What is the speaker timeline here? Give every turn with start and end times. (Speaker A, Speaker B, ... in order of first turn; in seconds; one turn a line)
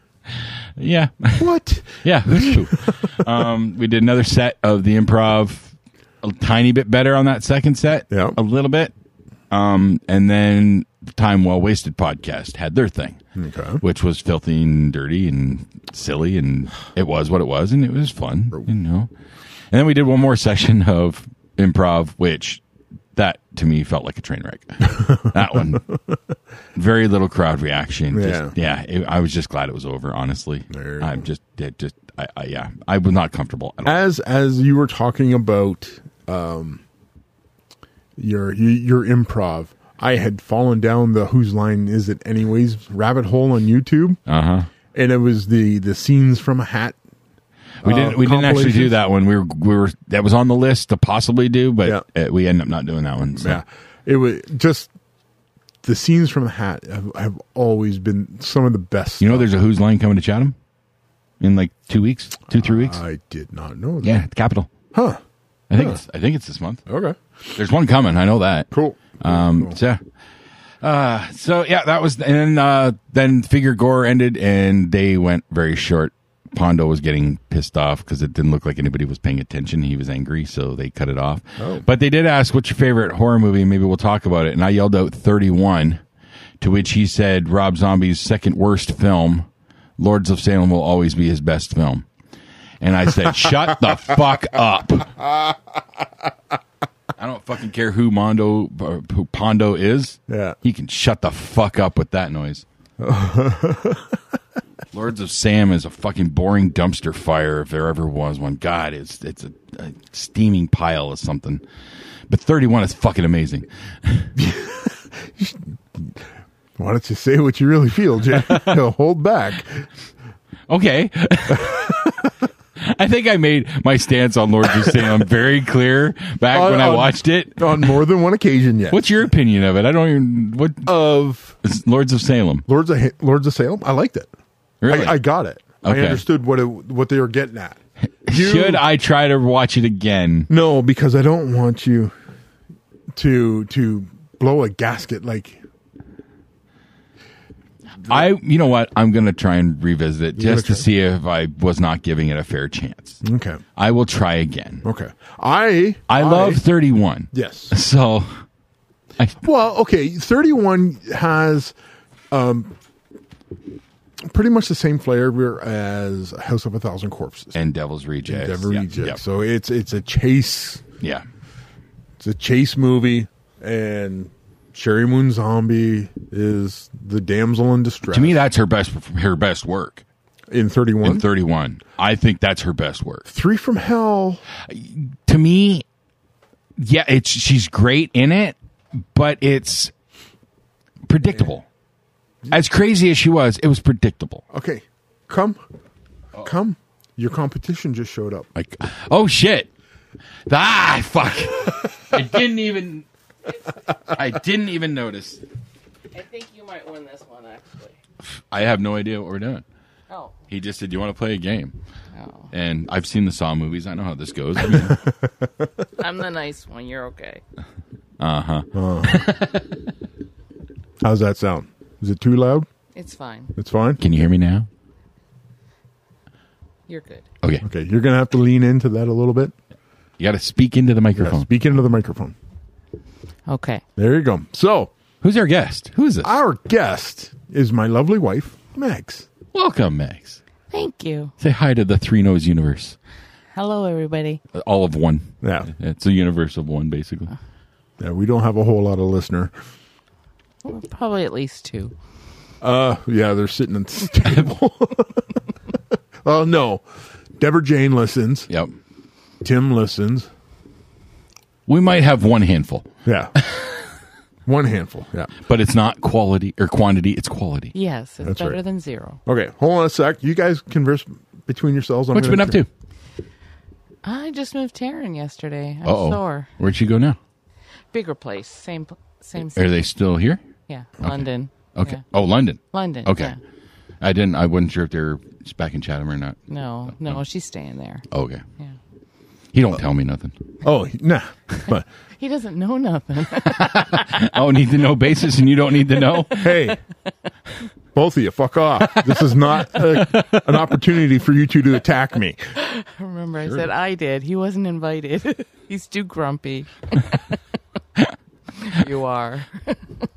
Speaker A: 0.3-8.9
Speaker B: 1.4-3.1
Speaker B: 8.1-8.4
Speaker A: 9.5-13.2
Speaker B: 13.3-13.8
Speaker A: 13.8-19.1
Speaker A: 19.7-22.6
Speaker A: 23.1-25.9
Speaker B: 24.9-25.3
Speaker A: 26.7-34.0
Speaker B: 28.1-28.5
Speaker B: 30.7-31.2
Speaker B: 33.8-36.8
Speaker B: 38.2-44.2
Speaker A: 44.3-44.7
Speaker B: 44.9-47.0
Speaker A: 47.8-53.6
Speaker B: 47.8-49.0
Speaker B: 53.3-54.9
Speaker B: 55.8-59.5
Speaker A: 59.2-60.5
Speaker A: 61.4-63.0
Speaker B: 62.5-64.2
Speaker A: 64.0-64.7
Speaker B: 64.9-65.2
Speaker A: 65.7-66.8
Speaker B: 65.7-66.0
Speaker B: 66.9-67.2
Speaker A: 67.5-70.0
Speaker B: 68.7-69.8
Speaker A: 70.8-86.0
Speaker B: 81.6-81.8
Speaker A: 86.6-89.5
Speaker A: 90.0-92.1
Speaker A: 92.8-95.1
Speaker B: 95.2-95.5
Speaker A: 97.2-102.6
Speaker B: 100.3-100.5
Speaker B: 103.0-104.1
Speaker A: 104.9-111.6
Speaker A: 112.3-114.3
Speaker B: 114.4-116.2
Speaker B: 116.8-119.8
Speaker A: 118.5-118.8
Speaker A: 120.7-122.1
Speaker A: 122.8-128.0
Speaker B: 126.5-129.1
Speaker A: 128.9-130.9
Speaker B: 130.8-131.5
Speaker A: 131.6-132.7
Speaker B: 132.7-134.3
Speaker A: 134.8-135.2
Speaker B: 134.9-138.8
Speaker A: 135.8-136.2
Speaker A: 138.2-140.5
Speaker B: 140.5-142.1
Speaker B: 143.1-145.6
Speaker A: 148.1-153.2
Speaker B: 150.3-150.8
Speaker B: 153.2-153.6
Speaker A: 153.8-154.8
Speaker B: 154.8-156.6
Speaker A: 156.1-158.4
Speaker B: 157.3-157.7
Speaker B: 159.4-161.7
Speaker B: 162.3-162.7
Speaker B: 164.2-167.6
Speaker A: 167.5-169.2
Speaker B: 168.2-170.8
Speaker A: 171.0-171.2
Speaker B: 172.2-178.4
Speaker A: 178.1-180.0
Speaker B: 180.5-181.2
Speaker A: 181.0-183.3
Speaker B: 183.3-184.4
Speaker A: 184.7-185.8
Speaker A: 186.8-189.9
Speaker A: 191.1-191.7
Speaker A: 192.5-194.4
Speaker B: 194.5-195.6
Speaker B: 196.4-198.5
Speaker A: 198.6-199.7
Speaker A: 200.5-203.1
Speaker A: 204.1-205.4
Speaker C: 206.1-207.9
Speaker A: 208.3-209.6
Speaker C: 210.1-210.3
Speaker A: 210.5-211.8
Speaker C: 212.1-212.5
Speaker A: 212.5-215.0
Speaker C: 216.0-217.4
Speaker A: 218.2-219.7
Speaker B: 218.7-219.3
Speaker B: 221.0-222.7
Speaker C: 222.9-223.5
Speaker B: 223.5-224.0
Speaker A: 224.0-224.7
Speaker C: 226.9-227.2
Speaker B: 227.6-229.5
Speaker A: 230.2-231.5
Speaker B: 231.2-232.3
Speaker C: 233.5-233.8
Speaker B: 234.0-234.9
Speaker A: 235.2-236.3
Speaker B: 236.2-239.3
Speaker A: 239.5-240.4
Speaker C: 240.7-241.3
Speaker A: 241.4-243.0
Speaker C: 243.5-244.4
Speaker A: 244.5-247.3
Speaker B: 245.4-245.7
Speaker B: 248.0-249.5
Speaker C: 250.6-251.9
Speaker B: 252.6-255.2
Speaker A: 254.2-254.5
Speaker B: 256.2-256.8
Speaker B: 257.4-258.5
Speaker B: 259.4-260.3
Speaker A: 261.7-262.9
Speaker B: 263.1-263.3
Speaker B: 264.4-265.3
Speaker A: 265.4-267.7
Speaker C: 267.7-269.2
Speaker B: 268.2-268.6
Speaker B: 269.2-272.6
Speaker A: 272.1-272.7
Speaker C: 274.0-276.5
Speaker A: 275.8-277.2
Speaker C: 277.9-279.8
Speaker A: 279.5-280.4
Speaker C: 280.7-282.0
Speaker A: 281.0-283.3
Speaker C: 282.6-283.4
Speaker A: 284.0-287.2
Speaker C: 286.5-288.0
Speaker A: 288.1-288.4
Speaker A: 289.5-290.3
Speaker B: 290.6-291.9
Speaker C: 292.2-294.0
Speaker A: 293.4-296.6
Speaker B: 296.4-296.8
Speaker B: 297.9-302.4
Speaker C: 302.6-307.2
Speaker A: 303.4-303.7
Speaker C: 308.6-309.8